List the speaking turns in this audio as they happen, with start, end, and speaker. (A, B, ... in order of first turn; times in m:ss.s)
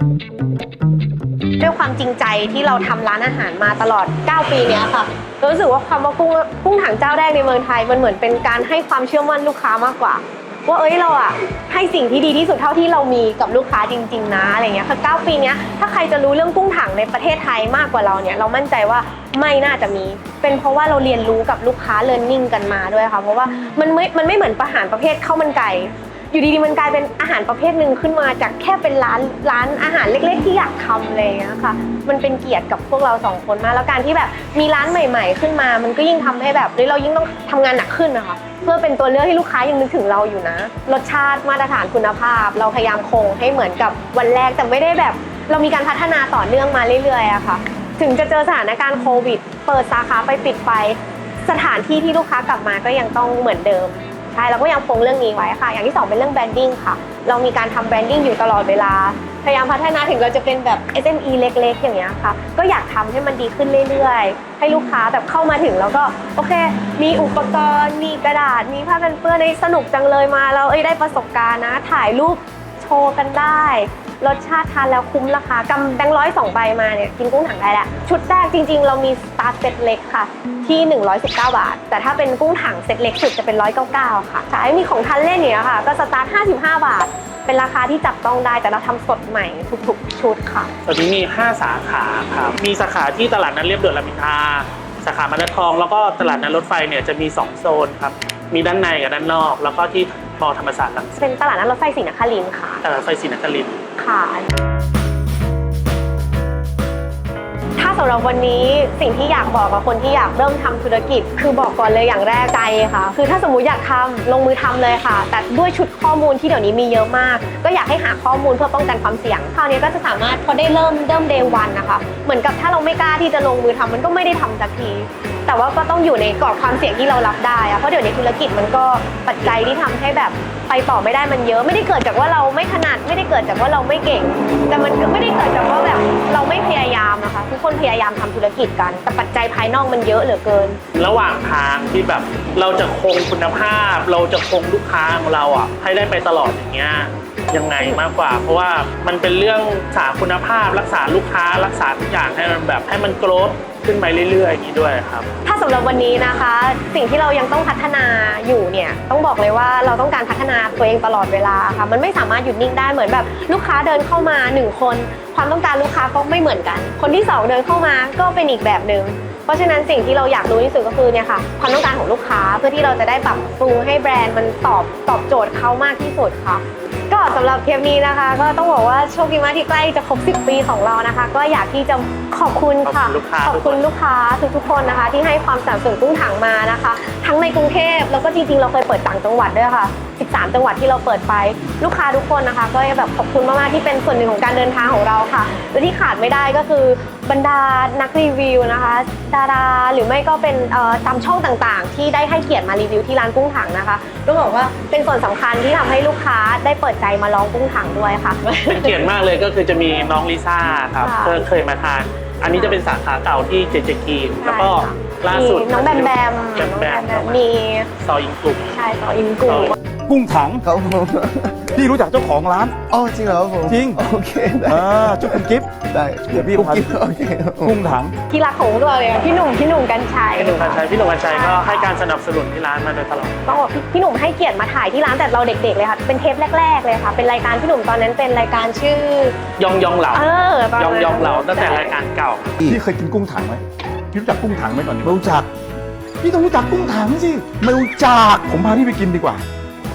0:01.6-1:30.7 A
1:30.8-1:41.2 B
1:41.2-1:42.8 A
1:42.8-1:43.8 B
1:44.0-1:44.5 A
1:47.8-2:20.8 A
2:20.9-2:35.3 B
2:35.4-3:29.0 A
3:02.8-3:03.8 B
3:28.7-3:37.4 B
3:31.0-3:31.4 A
3:32.4-3:32.8 A
3:34.4-3:37.9 A
3:38.0-3:38.7 B
3:38.7-3:39.7 A
3:39.4-3:39.7 B
3:40.1-3:40.6 C
3:40.6-3:41.7 D
3:41.7-3:42.8 C
3:42.9-3:47.8 D
3:43.6-3:44.0 C
3:44.6-3:45.7 C
3:46.2-3:47.0 C
3:47.6-3:48.1 C
3:48.3-3:52.0 A
3:50.4-3:53.6 B
3:53.4-3:59.4 A
3:59.6-4:02.6 B
4:00.1-4:02.0 A
4:02.6-4:05.5 C
4:06.2-4:09.4 C